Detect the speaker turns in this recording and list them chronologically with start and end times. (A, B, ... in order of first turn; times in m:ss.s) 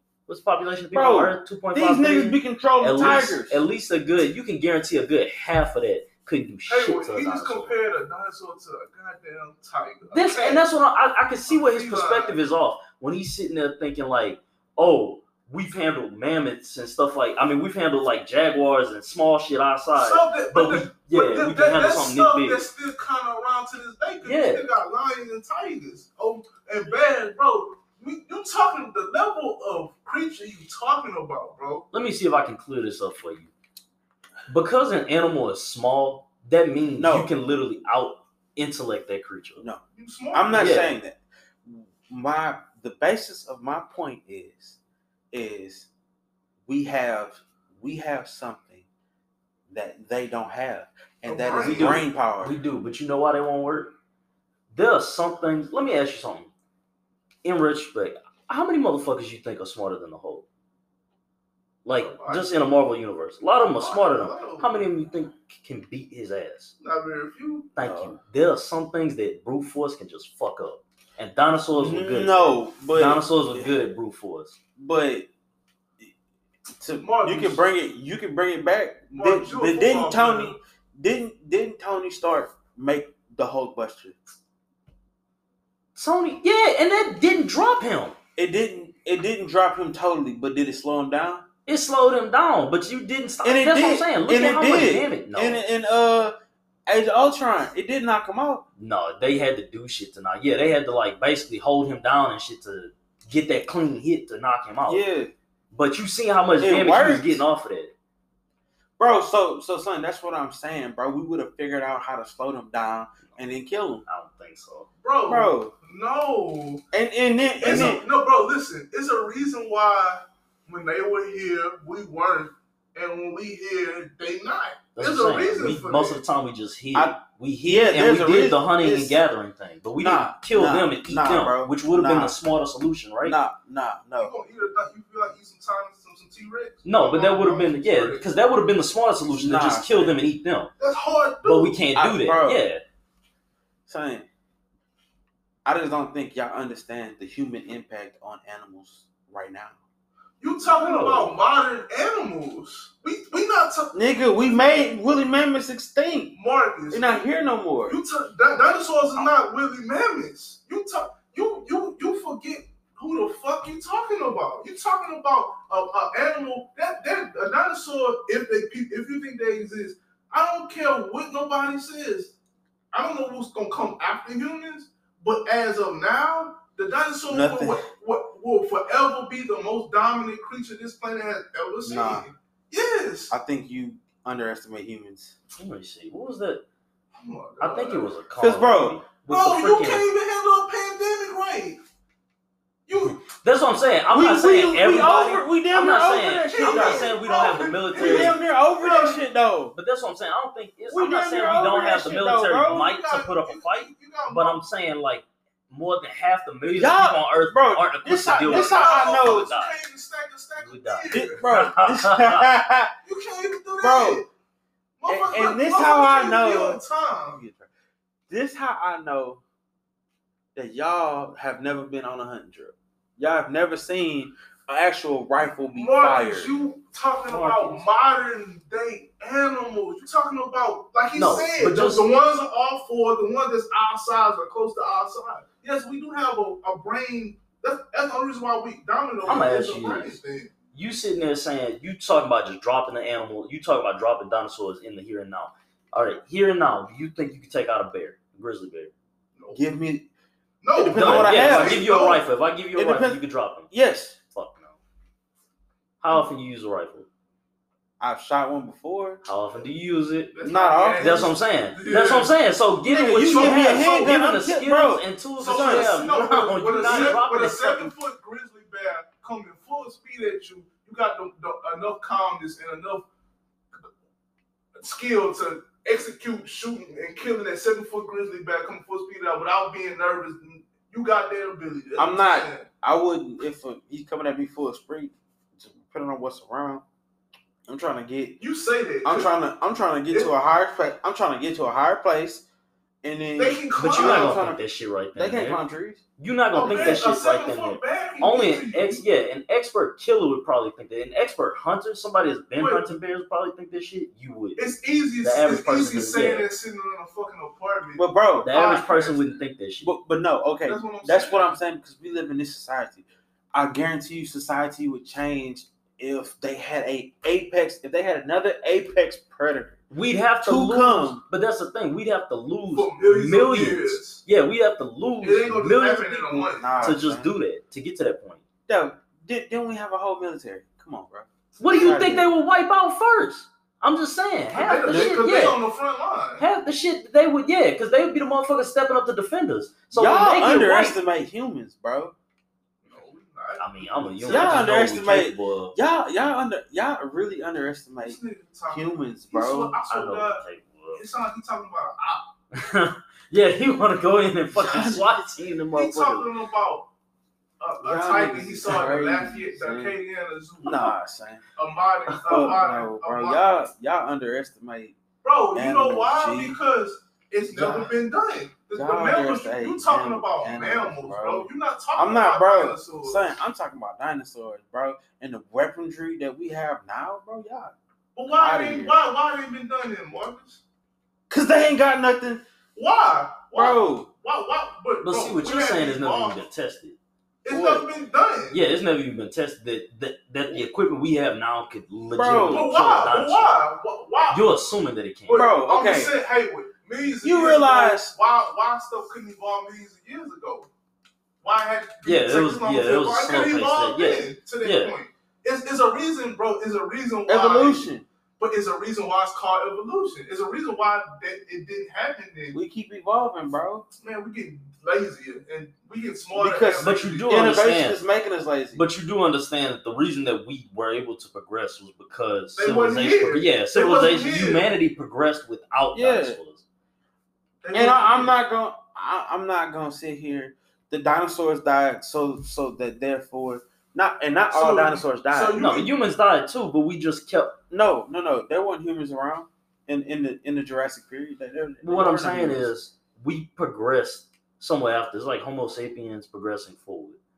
0:00.3-0:07.8 A
0:00.9-0:03.6 B
0:06.7-0:10.6 C
0:10.1-0:22.6 A
0:11.5-0:12.4 C
0:20.0-0:31.9 C
0:24.2-0:24.7 A
0:31.9-0:33.5 A
0:34.5-0:39.6 A
0:37.0-0:37.3 B
0:39.9-0:40.8 C
0:40.3-0:44.8 B
0:40.6-0:40.9 A
0:45.3-0:45.9 B
0:46.7-0:48.9 B
0:49.7-0:52.6 B
0:51.2-0:52.0 C
0:51.6-0:53.9 A
0:54.7-0:56.5 A
0:57.4-1:00.4 A
1:01.8-1:06.7 A
1:02.0-1:02.5 C
1:03.8-1:04.7 C
1:06.8-1:07.7 C
1:07.8-1:14.6 A
1:07.8-1:08.1 B
1:11.8-1:13.7 B
1:14.8-1:15.3 B
1:16.8-1:24.2 B
1:17.0-1:17.6 C
1:19.1-1:20.6 C
1:25.9-1:28.2 A
1:28.4-1:31.4 B
1:31.6-1:35.6 A
1:33.4-1:36.3 B
1:36.9-1:38.6 B
1:38.8-1:45.0 A
1:44.9-1:45.3 B
1:45.7-1:47.9 A
1:46.6-1:47.4 B
1:49.0-1:54.0 B
1:54.0-1:54.9 A
1:55.0-1:56.8 C
1:55.3-1:55.7 B
1:56.9-1:58.0 B
1:57.6-2:06.2 C
1:57.6-1:58.0 A
2:04.9-2:13.4 A
2:06.9-2:09.2 B
2:10.0-2:12.4 B
2:13.2-2:14.3 B
2:14.2-2:18.2 C
2:16.8-2:20.7 A
2:19.3-2:20.2 B
2:20.8-2:21.8 C
2:21.4-2:22.8 A
2:22.0-2:22.6 B
2:23.9-2:24.2 B
2:25.6-2:29.8 B
2:30.4-2:34.0 C
2:30.6-2:31.4 A
2:33.9-2:36.3 B
2:36.3-2:37.2 C
2:36.9-2:38.0 B
2:37.8-2:52.3 C
2:52.9-3:03.3 C
2:57.3-2:57.8 B
3:01.8-3:02.2 B
3:03.3-3:05.4 B
3:05.6-3:06.6 A
3:07.2-3:08.1 C
3:07.6-3:10.0 A
3:08.4-3:09.0 B
3:09.3-3:11.8 C
3:12.9-3:13.2 C
3:13.0-3:18.4 A
3:14.1-3:17.1 B
3:16.5-3:19.2 C
3:18.0-3:19.7 B
3:19.7-3:29.7 A
3:20.9-3:22.9 B
3:21.3-3:22.0 C
3:22.7-3:24.6 C
3:26.7-3:29.5 B
3:28.4-3:31.4 C
3:30.6-3:32.5 A
3:31.1-3:32.9 B
3:33.0-3:34.3 C
3:33.8-3:34.2 B
3:35.0-3:37.4 C
3:35.1-3:36.8 B
3:37.3-3:37.7 B
3:38.3-3:39.4 B
3:40.5-3:46.5 B
3:45.7-4:00.5 C
3:47.3-3:47.9 A
3:51.1-3:52.0 A
3:59.2-4:00.2 A
4:00.7-4:08.9 A
4:09.4-4:09.7 C
4:09.5-4:10.1 B
4:10.6-4:12.2 C
4:10.8-4:11.8 B
4:10.9-4:13.7 A
4:12.7-4:13.2 B
4:13.7-4:14.2 B
4:14.3-4:14.8 A
4:16.0-4:17.1 A
4:18.0-4:19.2 B
4:19.2-4:20.4 A
4:20.3-4:22.3 C
4:20.4-4:21.2 B
4:21.0-4:27.9 A
4:22.8-4:26.0 B
4:23.2-4:24.2 C
4:25.4-4:33.0 C
4:26.8-4:27.2 B
4:34.8-4:42.7 C
4:42.0-4:46.8 B
4:47.7-4:48.4 B
4:48.4-4:49.3 C
4:49.0-4:52.4 B
4:53.0-4:54.6 B
4:53.4-4:54.3 C
4:53.8-4:55.6 A
4:55.2-4:56.0 B
4:56.2-5:04.7 A
4:56.5-4:59.0 C
5:02.6-5:02.8 C
5:04.6-5:09.4 C
5:05.2-5:06.5 A
5:08.0-5:08.5 B
5:08.4-5:09.9 A
5:09.8-5:19.8 B
5:10.6-5:11.5 C
5:19.9-5:28.4 A
5:20.4-5:21.2 B
5:22.7-5:24.2 C
5:25.2-5:27.0 C
5:26.6-5:27.3 B
5:28.7-5:32.3 B
5:31.6-5:35.6 A
5:34.5-5:36.4 C
5:34.9-5:35.2 B
5:36.4-5:41.0 A
5:39.9-5:42.1 B
5:42.8-5:44.7 C
5:43.6-5:45.8 A
5:44.2-5:48.2 B
5:48.0-5:50.4 C
5:48.7-5:49.8 B
5:49.9-5:51.0 A
5:51.0-5:52.3 C
5:52.5-5:56.3 A
5:54.5-5:55.2 B
5:55.7-5:56.9 C
5:57.6-6:00.9 C
5:57.8-6:00.0 B
6:00.6-6:01.4 B
6:01.6-6:03.6 C
6:02.1-6:02.4 A
6:02.2-6:05.0 B
6:05.2-6:13.3 C
6:05.5-6:06.6 B
6:07.5-6:07.9 B
6:08.7-6:17.7 B
6:18.1-6:20.6 C
6:18.3-6:18.9 B
6:21.3-6:22.4 B
6:22.8-6:26.4 C
6:23.5-6:24.1 B
6:25.0-6:27.0 A
6:27.4-6:28.6 C
6:27.5-6:27.8 B
6:28.5-6:33.6 A
6:32.2-6:32.7 B
6:32.5-6:34.4 C
6:34.3-6:35.4 A
6:35.3-6:40.7 C
6:35.3-6:36.2 B
6:37.2-6:38.1 B
6:41.4-6:52.6 C
6:42.0-6:44.9 A
6:47.3-6:48.0 B
6:52.5-6:53.8 B
6:53.9-6:57.5 C
6:56.3-6:58.8 B
6:56.8-6:58.0 A
6:58.7-7:06.6 A
7:02.6-7:04.7 C
7:05.9-7:06.4 B
7:07.6-7:08.4 C
7:07.7-7:15.6 B
7:14.5-7:15.9 C
7:15.5-7:17.6 A
7:17.7-7:22.7 B
7:21.8-7:27.2 A